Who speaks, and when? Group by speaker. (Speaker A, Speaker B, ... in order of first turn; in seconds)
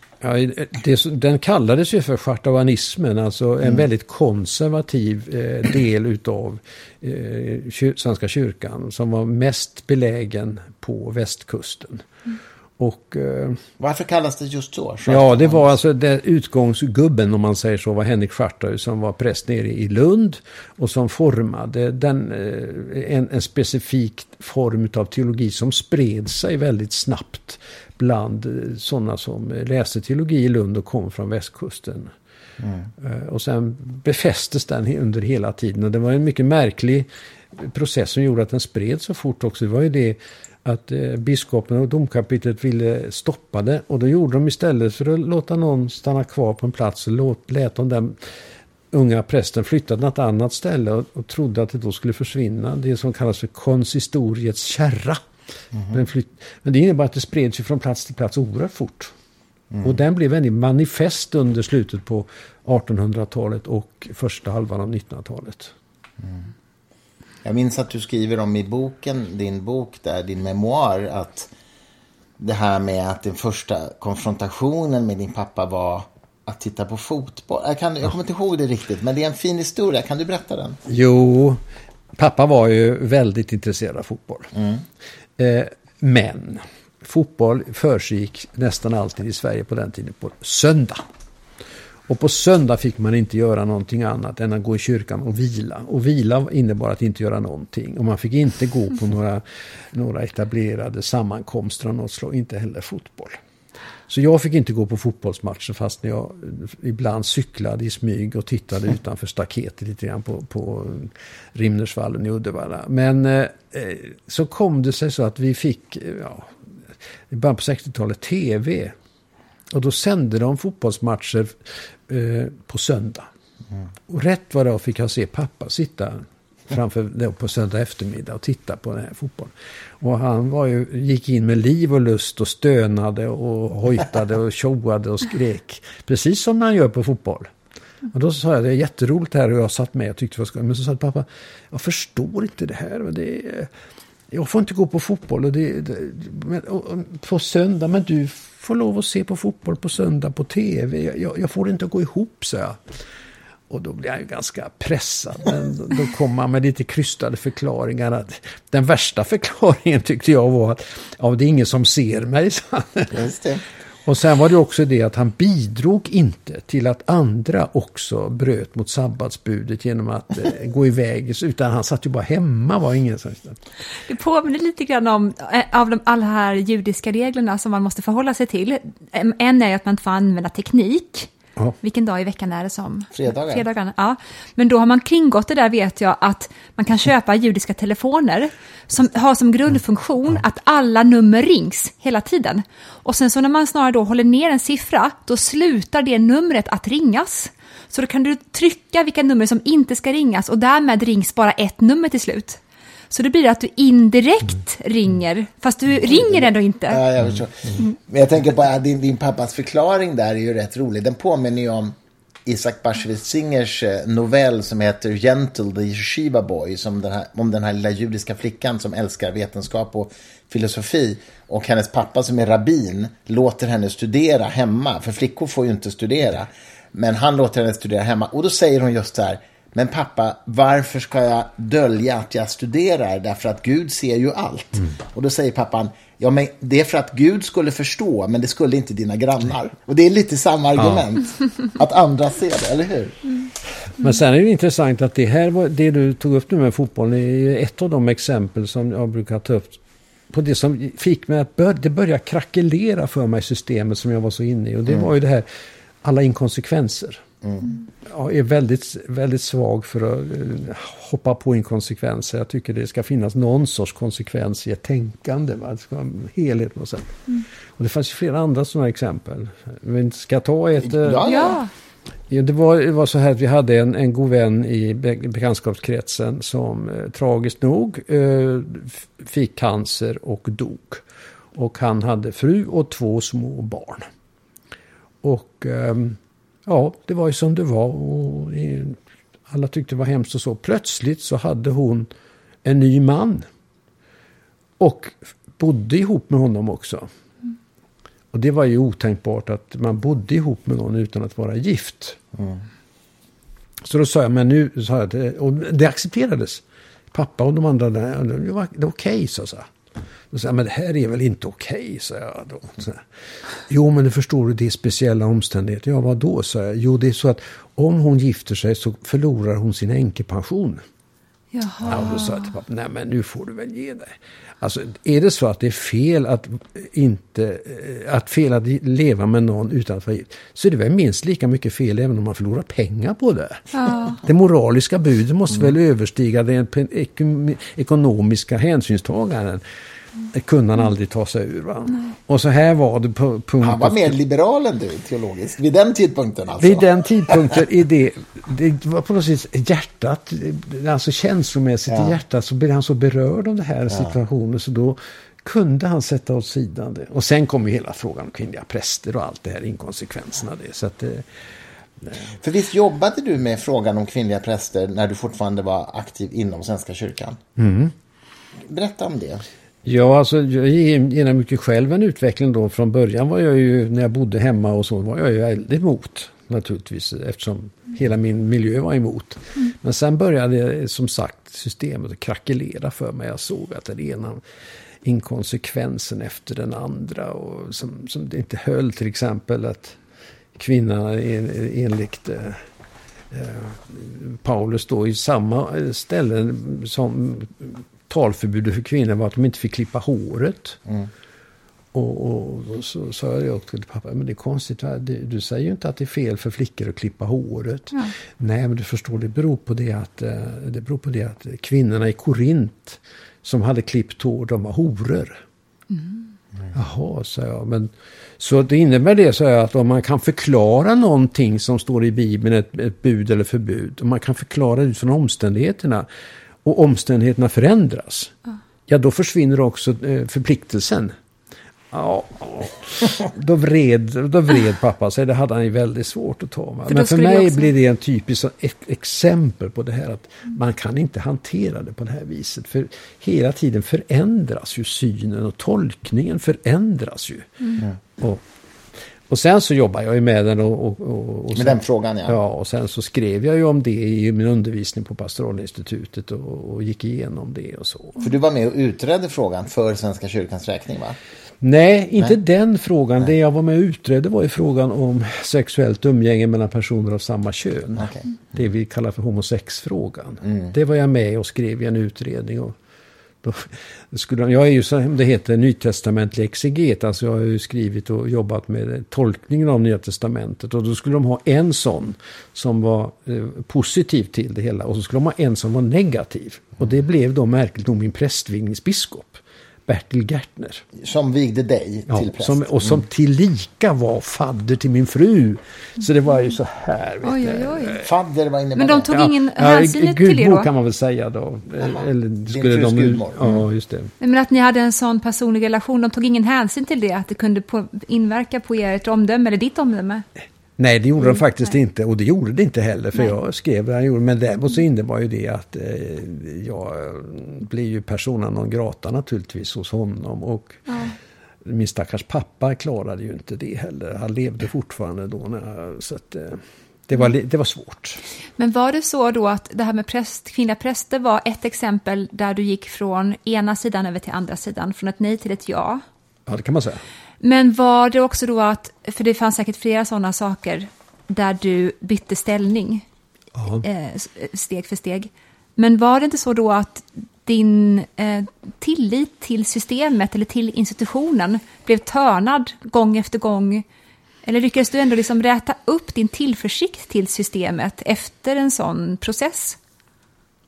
Speaker A: 0.2-12.0, 12.8-13.6, 15.1-32.1, 33.0-48.3, 48.9-55.2, 55.9-59.1, 59.8-65.7, 80.9-81.6, 82.2-84.5, 85.4-91.0, 92.1-103.4, 104.1-116.5, 117.3-118.9, 119.7-123.3, 124.1-137.5, 138.1-143.7, 144.3-152.8, 153.7-163.2, 164.1-173.6, 240.8-241.0, 244.0-249.8, 250.3-255.5, 256.0-257.2, 258.0-267.2, 267.8-271.3, 272.3-284.1, 285.2-292.1, 292.6-293.4, 294.8-297.1, 298.3-302.2, 303.8-309.7, 310.3-313.0, 313.7-320.8, 321.8-339.6, 340.3-344.1, 346.6-361.2, 367.6-367.9, 369.8-384.4, 385.0-390.0, 390.6-392.6, 393.3-400.8, 401.9-415.4, 416.7-426.1, 426.6-428.3, 428.9-431.1, 431.9-447.5, 448.2-448.4, 449.3-458.2, 461.6-472.8, 473.4-490.8, 492.1-498.1, 499.1-504.1, 510.8-520.9, 521.6-528.2, 536.5-537.0, 543.5-543.8
Speaker B: 13.8-15.7, 32.6-32.9, 66.2-66.5, 67.4-71.5, 72.4-80.8, 84.5-84.8, 163.1-163.6, 183.1-183.6, 206.0-211.9, 212.4-243.2, 257.4-257.7, 270.8-271.6, 343.6-347.5, 362.4-367.4, 368.7-369.4, 451.5-452.4, 458.2-461.2, 468.0-468.3, 470.4-470.7, 490.9-493.0, 498.0-499.2, 501.8-503.6
Speaker C: 174.1-202.6, 203.1-207.0, 271.2-271.7, 321.5-322.5, 333.7-334.2, 415.9-416.2, 436.9-437.7, 497.2-498.0, 498.8-500.7, 504.2-510.2, 520.9-521.1, 528.6-536.0, 537.4-543.0, 543.7-553.8, 554.4-559.8